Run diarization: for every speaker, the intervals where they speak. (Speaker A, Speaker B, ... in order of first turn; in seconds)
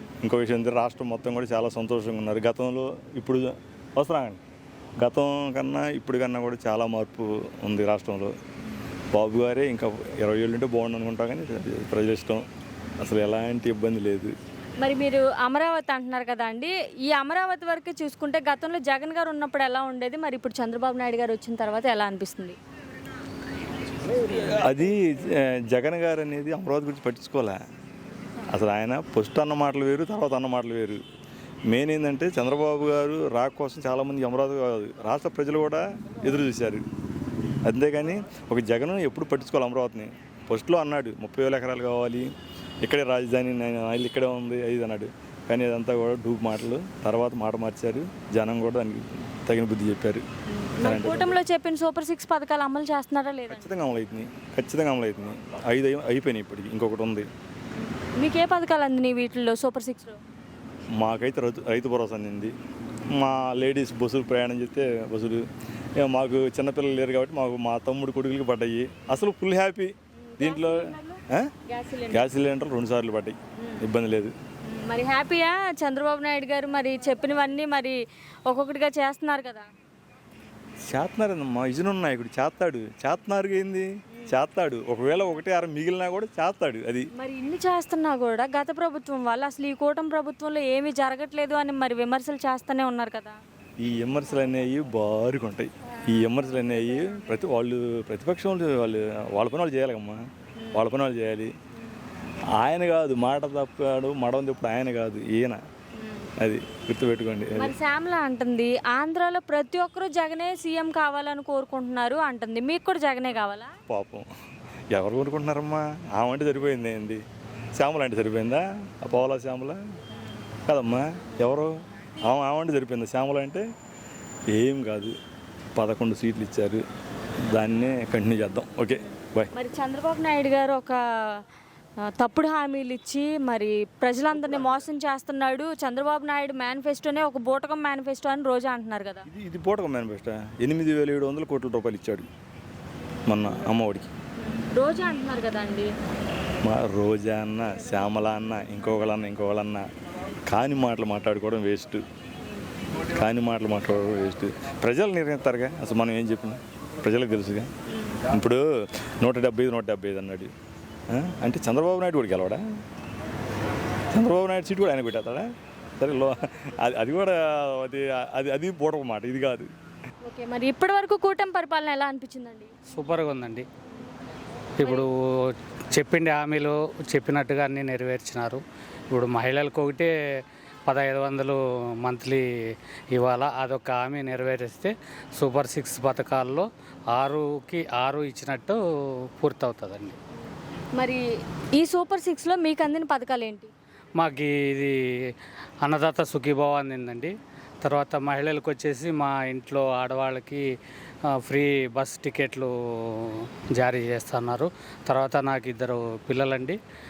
Speaker A: 0.2-4.4, 5.0-8.3, 9.1-12.5, 13.0-14.3, 24.2-27.6, 28.5-31.0, 31.7-36.8, 37.6-42.3, 42.8-50.2, 50.8-51.4, 53.5-57.3, 61.0-62.5, 63.1-65.5, 66.0-71.5, 72.1-74.3, 80.9-87.1, 93.8-101.5, 102.5-105.6, 106.4-107.7, 113.9-114.3, 114.9-117.2, 117.8-119.8, 120.7-123.7, 124.5-125.2, 125.8-126.8, 127.5-129.5, 139.3-142.3, 143.3-144.1, 146.6-149.9, 150.5-152.0, 153.1-157.7, 158.2-160.5, 161.1-162.6, 164.1-169.7
Speaker B: 14.8-22.6, 50.5-53.7, 57.8-60.2, 70.3-72.3, 73.6-73.9, 74.7-79.7, 87.2-93.4, 100.6-100.9, 106.0-106.3, 107.6-113.7, 129.0-131.5, 132.0-139.3, 144.4-145.9, 170.2-172.8, 190.9-193.7
Speaker C: 172.9-173.7, 174.8-190.2, 194.2-200.7, 201.3-206.8